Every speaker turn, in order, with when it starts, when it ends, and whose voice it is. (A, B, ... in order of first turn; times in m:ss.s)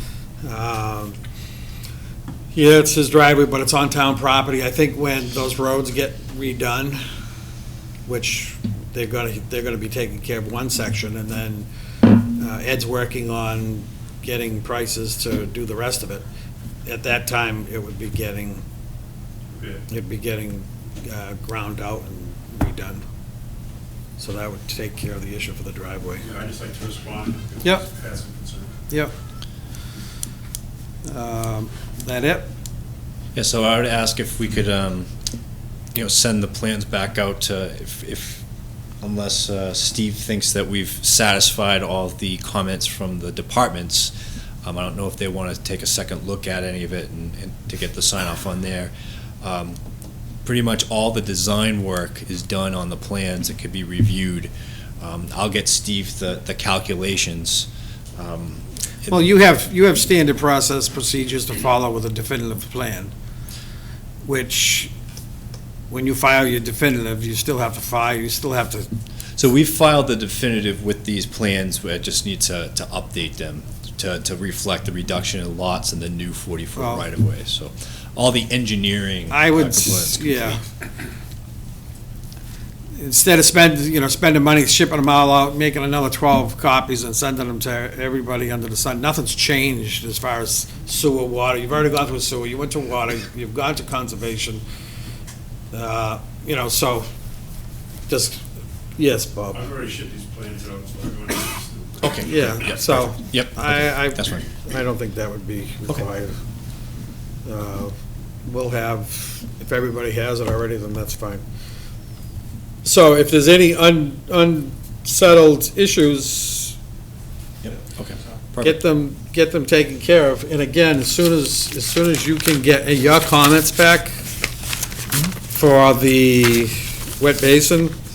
0:00.4-0:01.2 A
0:02.5-0:07.0 A
0:08.1-0:11.7 A
0:12.2-0:16.2 A
0:16.8-0:18.6 A
0:19.5-0:19.8 B
0:19.9-0:23.0 A
0:24.2-0:26.2 A
0:26.2-0:28.8 B
0:31.1-0:32.5 A
0:33.4-0:35.1 C
0:35.9-0:38.4 C
0:39.0-0:49.8 C
0:50.4-0:59.1 C
0:59.1-1:03.1 A
1:04.2-1:04.9 A
1:05.9-1:08.9 A
1:09.4-1:20.6 C
1:16.8-1:17.0 A
1:19.3-1:20.6 A
1:23.0-1:34.6 A
1:35.7-1:37.1 A
1:38.1-1:38.4 A
1:39.0-1:39.6 A
1:39.5-1:42.2 B
1:42.0-1:44.5 C
1:42.2-1:46.4 A
1:47.4-1:47.9 A
1:48.4-1:51.4 A
1:52.8-1:56.8 A
1:57.6-1:58.8 C
1:58.6-2:04.2 A
2:05.4-2:08.0 A